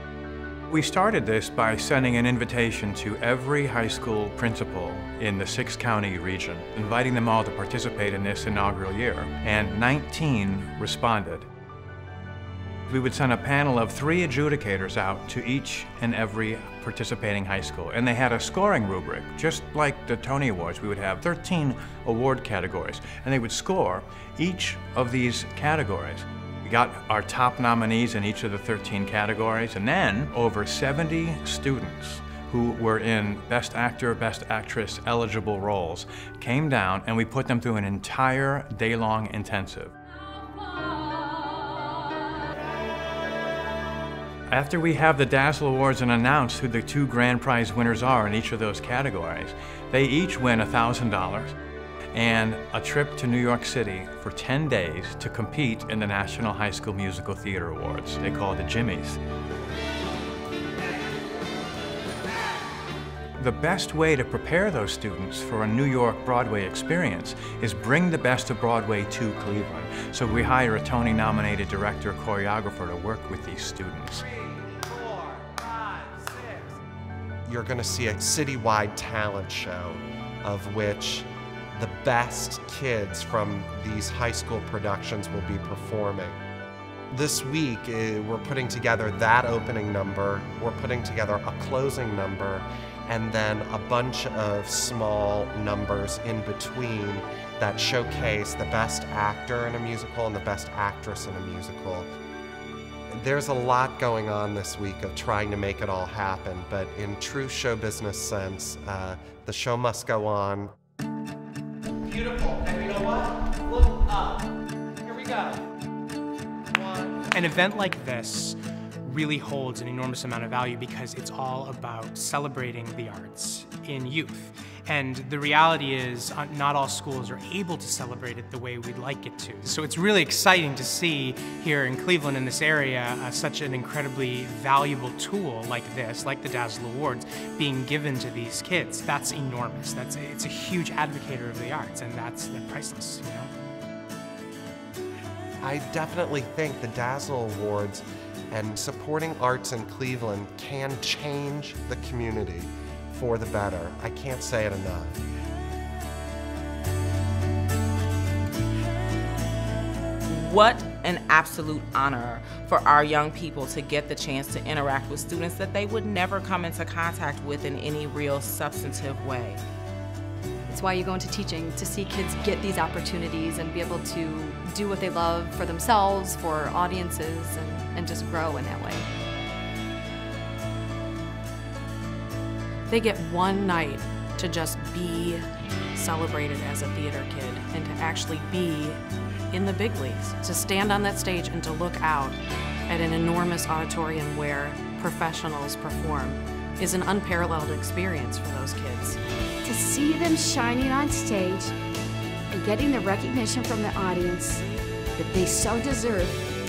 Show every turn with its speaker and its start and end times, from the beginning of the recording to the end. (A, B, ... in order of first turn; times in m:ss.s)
0:00.7-0:11.5 A
0:12.9-0:39.9 A
0:44.5-0:51.6 A
0:52.1-0:59.2 A
1:03.4-1:14.2 A
1:17.4-1:26.4 B
1:27.1-1:42.1 B
1:43.1-1:50.7 B
1:52.2-1:54.1 B
1:57.3-2:23.5 C
2:25.6-2:35.2 B
2:40.3-2:49.6 D
2:50.7-2:59.1 E
3:02.9-3:19.2 F
3:19.6-3:21.7 G
3:22.5-3:24.7 G
3:25.2-3:26.4 G